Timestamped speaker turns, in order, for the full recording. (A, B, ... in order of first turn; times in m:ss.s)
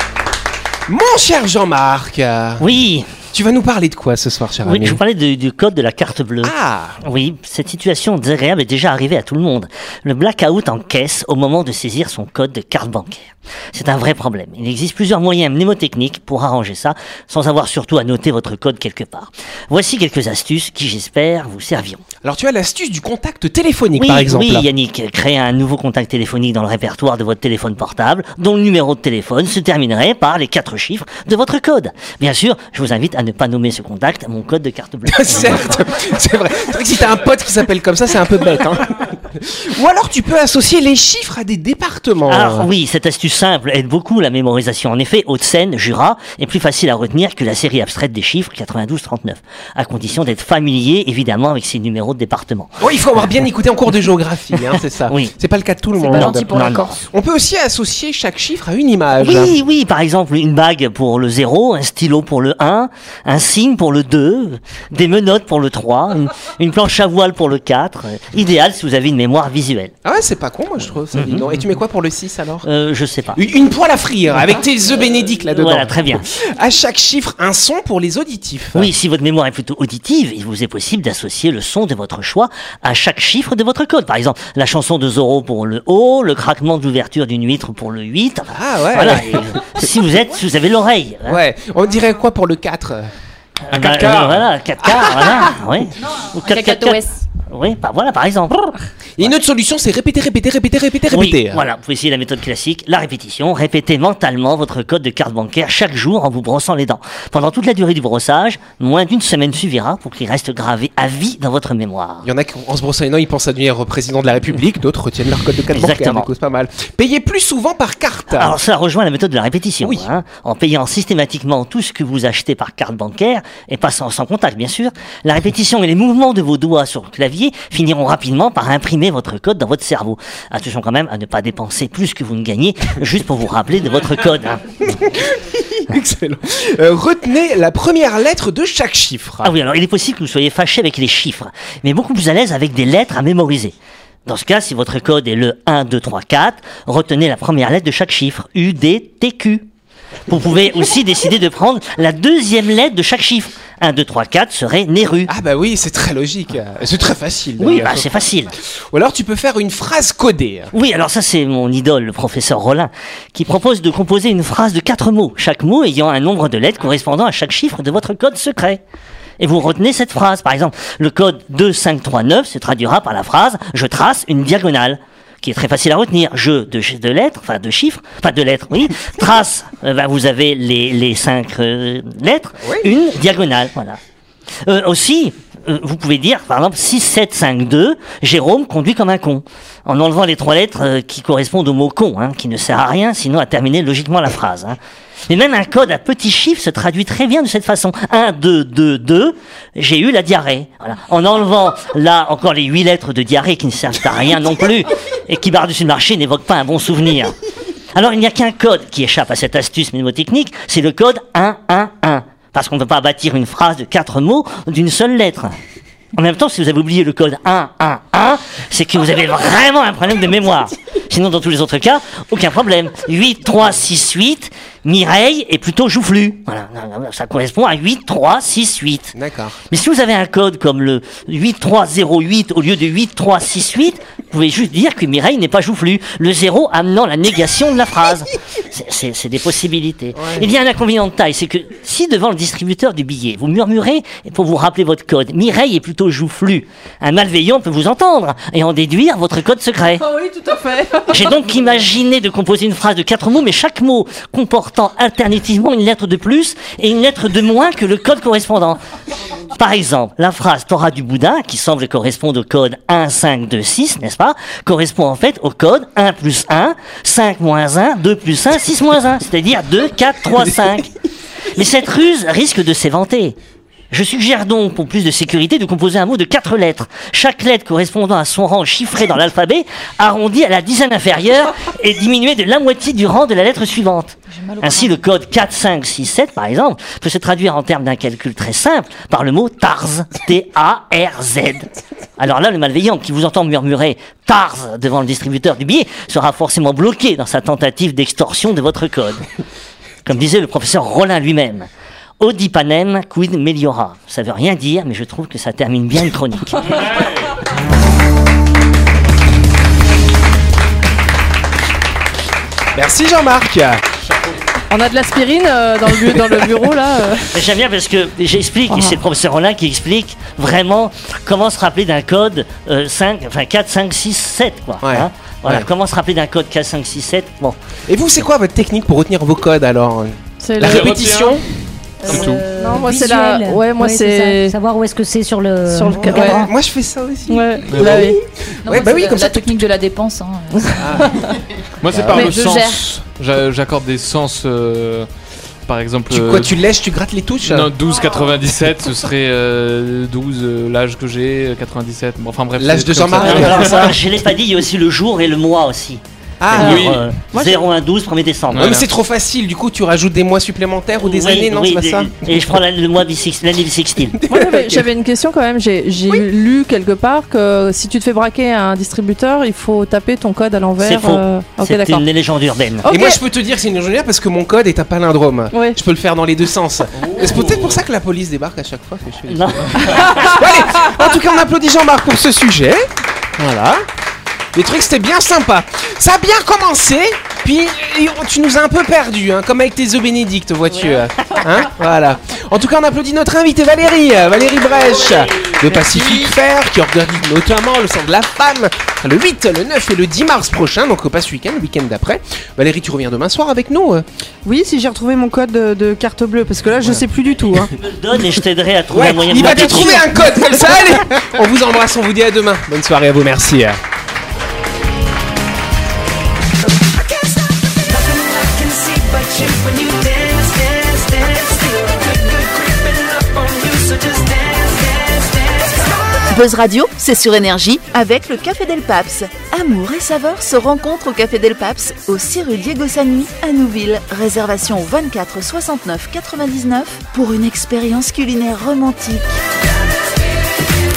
0:00.9-0:02.6 A
0:02.6-0:03.1 B
0:03.3-0:05.0 A
0:04.6-0:22.0 B
0:06.4-0:07.0 A
0:22.2-0:24.7 A
0:24.0-0:35.7 B
0:35.1-0:42.7 A
0:42.3-0:52.8 B
0:52.8-0:59.5 A
0:55.1-0:55.3 B
0:56.0-0:57.0 C
0:56.1-0:56.9 B
0:59.2-1:09.9 B
1:10.0-1:12.7 A
1:11.1-1:11.5 B
1:12.6-1:13.4 B
1:13.4-1:18.9 A
1:15.6-1:16.3 B
1:18.8-1:31.4 B
1:28.5-1:29.6 A
1:31.3-1:33.1 A
1:33.7-1:39.3 B
1:33.7-1:34.5 D
1:36.4-1:37.2 C
1:39.2-1:41.6 A
1:41.1-1:52.3 B
1:52.2-1:58.5 A
1:55.7-1:56.3 B
1:58.3-2:14.6 B
2:14.9-2:19.5 A
2:19.4-2:23.7 B
2:24.3-2:29.7 B
2:30.3-2:35.3 B
2:35.3-2:38.1 A
2:37.6-2:38.5 B
2:38.8-2:40.7 A
2:40.7-2:48.8 B
2:49.4-3:04.0 B
3:02.6-3:02.9 A
3:04.6-3:27.4 B
3:28.0-3:35.6 B
3:36.2-3:49.2 B
3:49.1-3:49.6 A
3:49.7-4:10.0 B
4:10.0-4:11.3 E
4:11.1-4:18.8 B
4:19.5-4:30.9 B
4:31.5-4:33.4 B
4:33.9-4:51.7 B
4:44.3-4:45.0 C
4:52.2-4:59.2 B
5:00.0-5:01.7 B
5:02.2-5:06.7 B
5:06.6-5:07.1 D
5:12.8-5:13.8 A
5:14.7-5:17.3 E
5:17.3-5:27.6 B
5:24.8-5:25.7 A
5:27.9-5:31.4 A
5:30.4-5:30.8 E
5:30.6-5:31.4 D
5:32.0-5:36.5 F
5:32.0-5:32.5 D
5:32.6-5:34.6 E
5:35.7-5:36.5 E
5:35.9-5:39.7 A
5:37.3-5:38.2 E
5:37.7-5:38.1 D
5:38.6-5:41.0 C
5:40.8-5:41.2 A
5:41.8-5:45.1 D
5:41.9-5:42.3 A
5:42.1-5:42.8 E
5:42.2-5:42.8 C
5:45.7-5:46.5 D
5:46.1-5:47.7 A
5:47.4-5:53.9 D
5:52.6-5:53.9 A
5:53.2-5:56.0 B
5:56.4-5:57.0 A
5:56.5-5:58.7 B
5:56.5-5:57.1 D
5:58.5-5:58.9 D
5:58.6-6:02.4 A
6:01.0-6:04.2 B
6:04.3-6:12.0 E
6:04.3-6:04.8 A
6:10.8-6:12.9 B
6:12.8-6:13.2 E
6:12.9-6:22.9 A
6:15.5-6:15.8 E
6:17.0-6:17.8 D
6:19.3-6:20.4 B
6:23.4-6:23.8 A
6:24.5-6:44.0 A
6:30.7-6:31.4 B
6:35.1-6:36.1 B
6:44.4-6:47.7 G
6:47.7-6:50.2 B
6:48.9-6:53.8 A
7:02.6-7:04.0 H
7:06.3-7:19.4 H